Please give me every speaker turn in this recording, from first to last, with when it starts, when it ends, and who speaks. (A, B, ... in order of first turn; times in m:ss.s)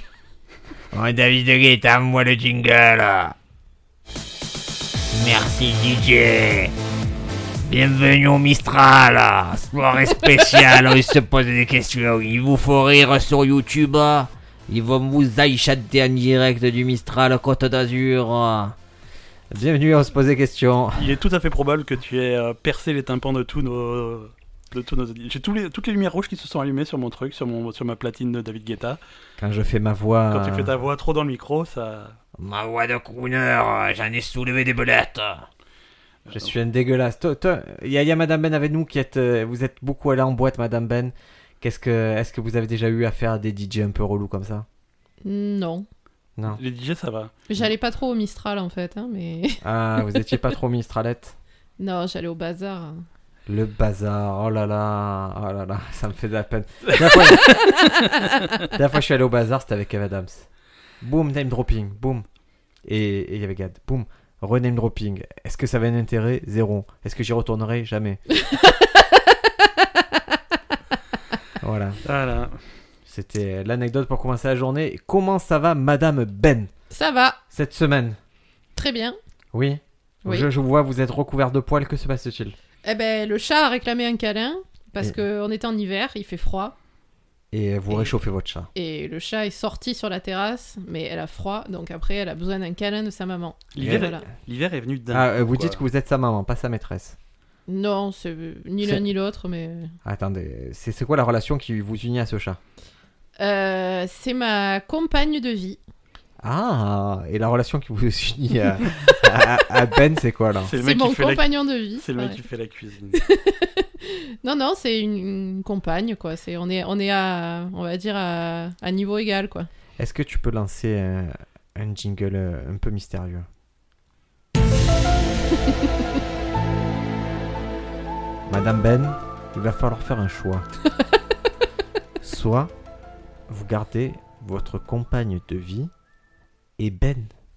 0:00.9-0:03.3 A
0:05.1-0:06.7 A
0:07.7-0:18.7 A
0:19.5-0:21.1 A
0:21.0-0:29.0 B
0:29.4-0:30.7 A
0:30.3-0:32.2 B
0:32.4-0:35.4 A
0:36.2-0:36.5 B
0:36.3-0:44.6 A
0:45.2-0:45.8 C
0:46.5-0:47.3 B
0:47.5-0:49.6 C
0:49.6-0:51.4 A
0:51.8-0:53.0 C
0:53.5-0:57.6 A
0:57.5-0:58.4 C
0:58.6-1:00.4 A
1:01.0-1:02.2 A
1:02.8-1:08.2 A
1:08.3-1:10.4 C
1:11.6-1:12.0 A
1:12.0-1:12.6 B
1:13.1-1:16.7 A
1:16.9-1:17.4 C
1:17.5-1:18.2 A
1:18.8-1:19.2 C
1:19.5-1:22.6 A
1:22.8-1:26.8 C
1:27.5-1:28.7 A
1:28.7-1:34.2 C
1:33.7-1:35.8 B
1:33.8-1:34.1 A
1:35.1-1:37.2 A
1:37.7-1:39.9 C
1:40.0-1:42.6 A
1:43.4-1:45.8 C
1:46.4-1:50.7 A
1:50.6-1:53.2 B
1:50.7-1:52.4 C
1:53.2-1:59.7 C
2:00.0-2:03.5 A
2:08.5-2:10.6 A
2:12.2-2:12.7 A
2:13.5-2:15.9 A
2:16.8-2:17.3 A